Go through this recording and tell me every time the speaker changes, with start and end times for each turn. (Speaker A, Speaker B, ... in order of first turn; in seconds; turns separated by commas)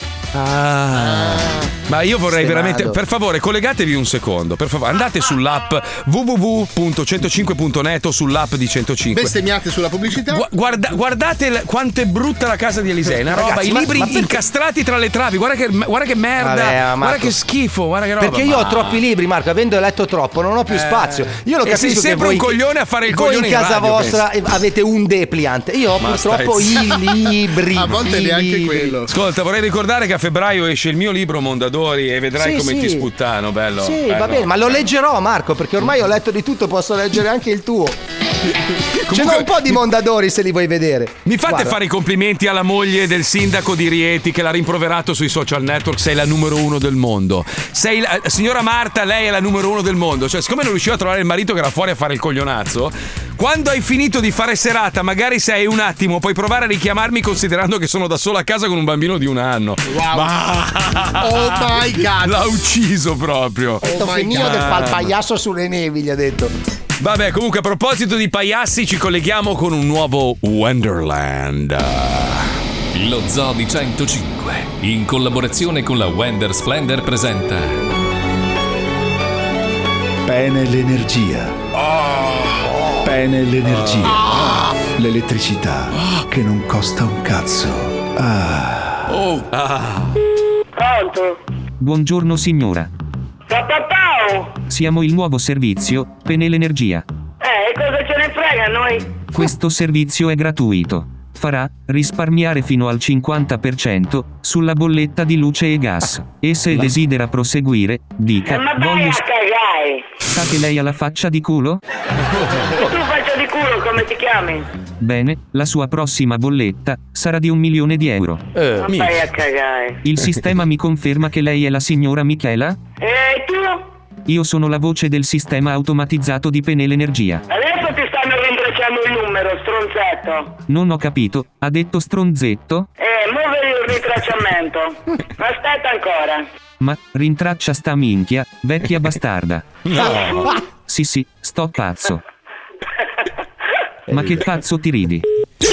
Speaker A: 0.3-9.3, Speaker B: 1.0-1.4, Speaker C: 2.3-3.0, Speaker B: 9.1-10.5, Speaker A: 10.3-19.0, Speaker C: 13.3-14.3, Speaker C: 16.4-17.4, Speaker C: 18.2-28.9, Speaker A: 20.7-24.2, Speaker A: 26.0-27.0, Speaker B: 27.7-29.1, Speaker A: 29.1-34.8, Speaker C: 32.4-33.1, Speaker C: 33.8-38.0, Speaker A: 39.0-39.8, Speaker C: 39.1-41.8, Speaker A: 41.2-65.1, Speaker B: 59.9-60.3, Speaker B: 61.2-62.5, Speaker B: 63.8-64.9, Speaker C: 63.8-66.5, Speaker A: 67.0-72.5, Speaker D: 72.9-77.8, Speaker E: 80.2-81.6, Speaker E: 83.0-89.1, Speaker A: 89.1-90.1, Speaker F: 90.7-91.4, Speaker G: 91.8-92.9, Speaker F: 93.5-94.6, Speaker G: 94.7-97.0, Speaker F: 97.4-99.2, Speaker G: 99.3-109.2, Speaker F: 108.5-110.1, Speaker G: 110.3-111.8, Speaker F: 112.7-114.7, Speaker G: 115.0-118.4, Speaker A: 118.8-119.2, Speaker F: 118.8-120.0, Speaker G: 120.0-122.8, Speaker F: 123.0-123.9, Speaker G: 124.2-127.4, Speaker F: 127.5-130.6, Speaker G: 130.7-132.9, Speaker F: 133.0-136.4, Speaker G: 136.8-139.6, Speaker A: 139.8-140.5, Speaker G: 140.8-142.2, Speaker G: 144.1-145.2